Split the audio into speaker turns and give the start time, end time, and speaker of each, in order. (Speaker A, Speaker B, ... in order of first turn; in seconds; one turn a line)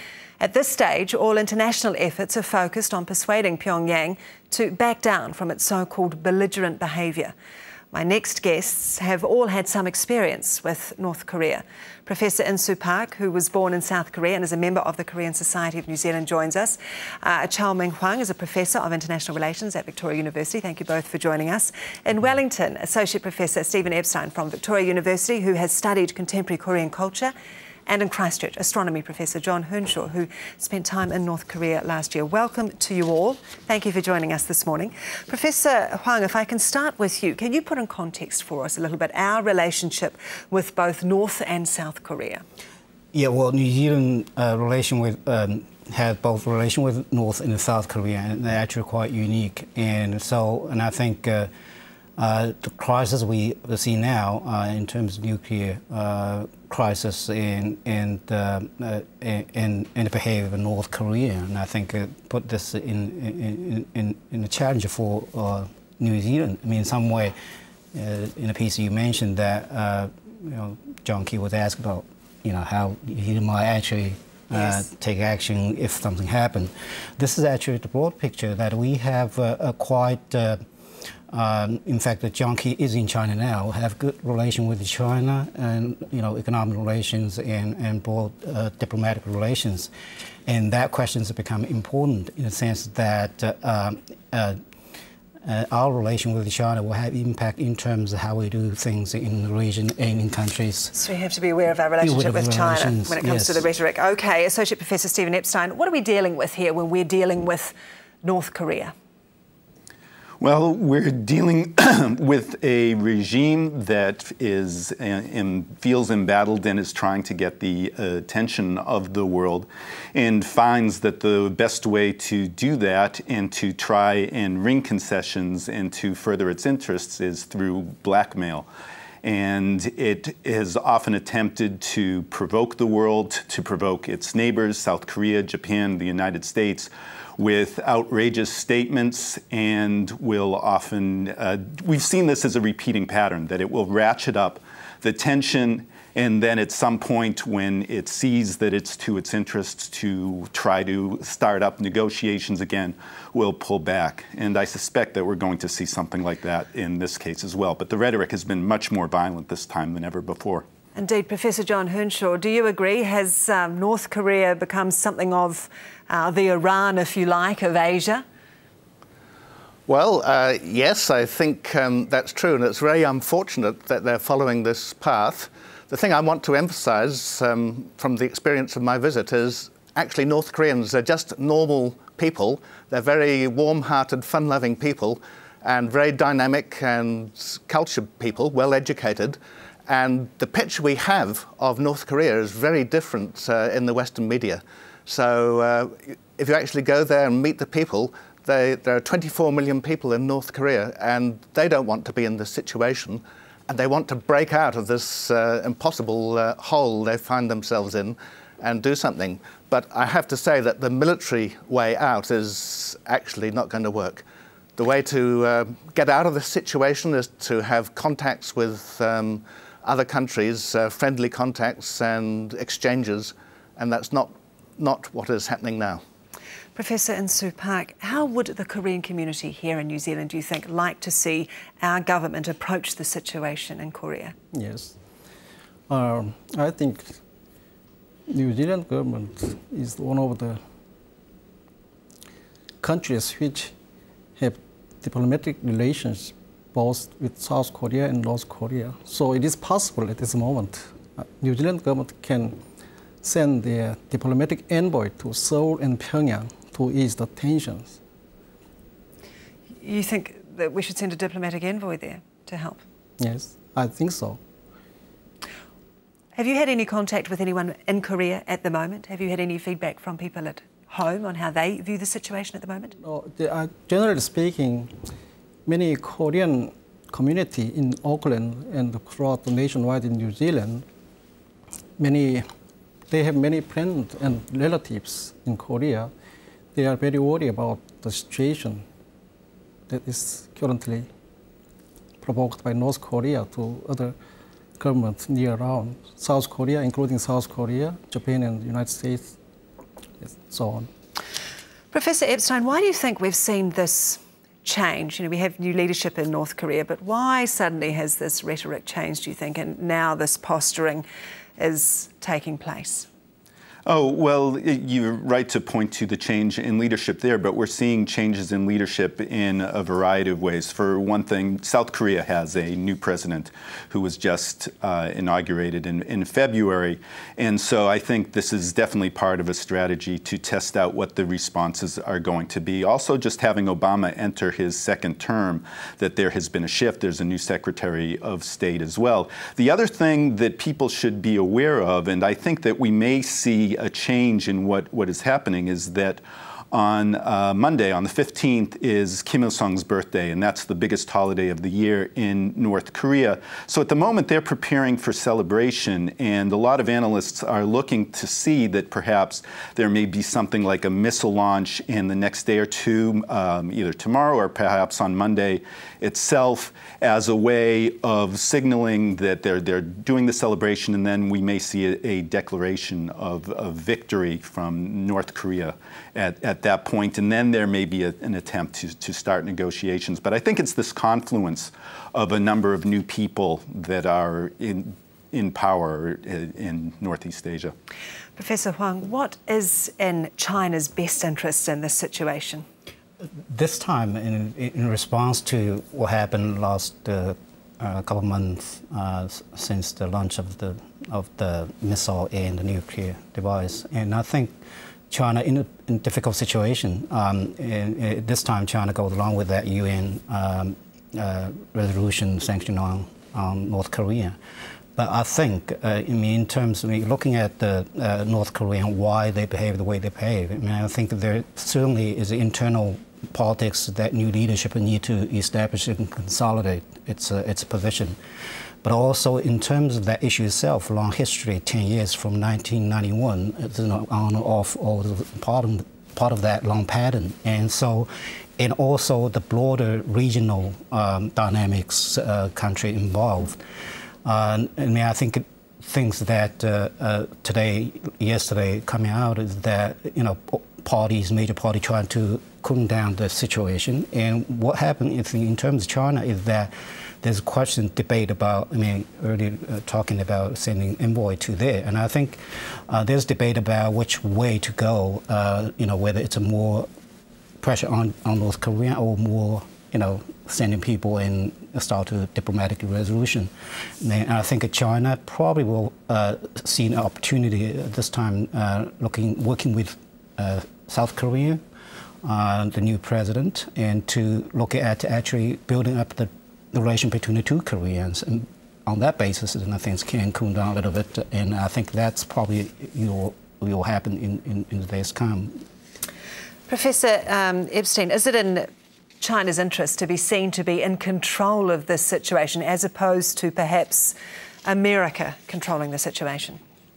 Speaker A: 0.4-7.3
Speaker A: 7.9-27.3
Speaker A: 27.9-42.4
Speaker B: 43.1-51.5
Speaker B: 52.2-67.3
Speaker B: 67.9-80.6
Speaker B: 81.3-89.9
Speaker B: 90.5-94.6
Speaker B: 95.4-100.9
Speaker A: 100.9-108.9
Speaker B: 102.0-103.7
Speaker C: 110.4-128.7
Speaker C: 129.2-160.7
Speaker A: 160.9-168.2
Speaker D: 169.9-214.2
Speaker D: 214.8-226.0
Speaker A: 226.7-234.3
Speaker E: 234.5-234.9
Speaker E: 235.9-237.2
Speaker E: 238.3-240.6
Speaker E: 242.8-243.7
Speaker E: 244.4-252.6
Speaker E: 253.2-258.0
Speaker A: 259.8-262.8
Speaker E: 263.2-264.4
Speaker A: 266.4-272.9
Speaker E: 273.0-274.9
Speaker E: 275.6-280.8
Speaker E: 282.0-282.4
Speaker E: 283.1-286.1
Speaker E: 286.7-288.8
Speaker E: 289.9-291.1
Speaker E: 292.2-294.1
Speaker E: 294.8-299.4
Speaker E: 300.2-300.9
Speaker A: 301.9-311.0
Speaker A: 311.6-313.1
Speaker C: 313.9-387.7
Speaker A: 388.4-392.6
Speaker B: 393.5-404.5
Speaker B: 405.1-414.4
Speaker B: 414.9-428.2
Speaker B: 428.8-443.6
Speaker B: 444.2-456.7
Speaker B: 457.2-466.9
Speaker B: 467.6-481.6
Speaker B: 482.2-495.6
Speaker A: 496.7-498.7
Speaker A: 499.2-506.6